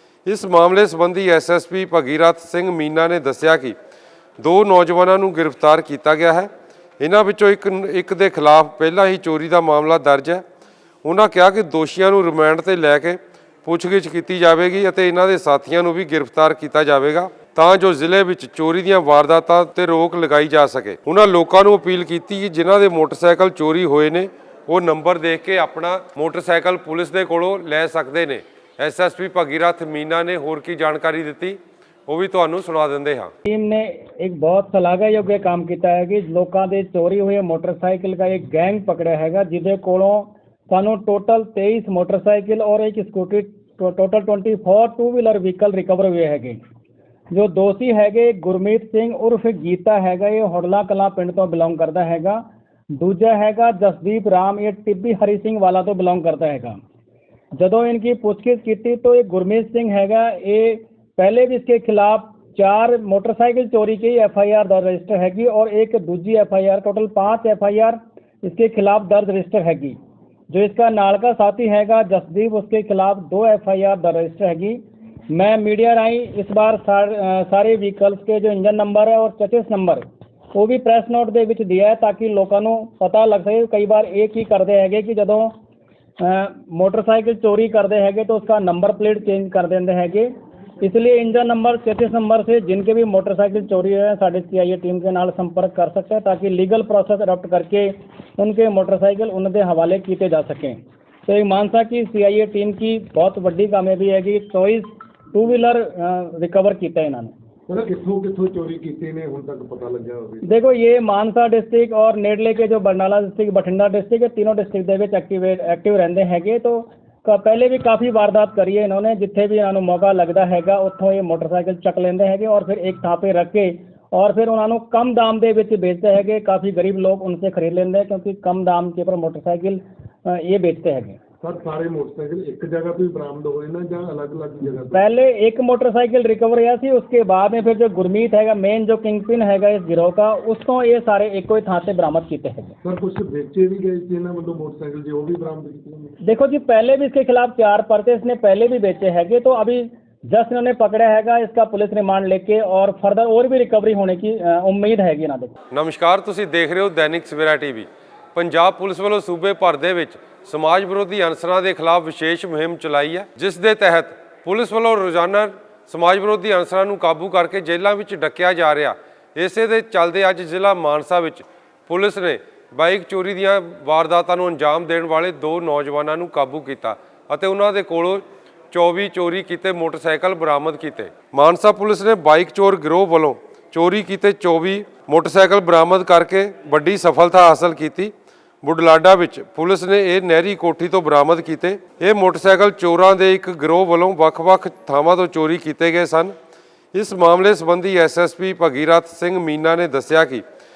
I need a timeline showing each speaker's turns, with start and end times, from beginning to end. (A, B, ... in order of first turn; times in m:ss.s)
0:00.2-0:03.7 A
0:04.4-0:10.4 A
0:11.0-0:33.3 A
0:33.4-0:46.6 B
0:47.3-0:56.8 B
0:57.5-1:10.0 B
1:10.5-1:25.5 B
1:26.2-1:47.3 B
1:47.7-1:50.5 C
1:50.4-2:11.2 B
2:11.4-2:15.0 C
2:14.9-2:22.8 B
2:22.8-2:26.1 C
2:26.2-2:35.5 B
2:35.7-3:16.3 A
3:16.9-3:20.4 A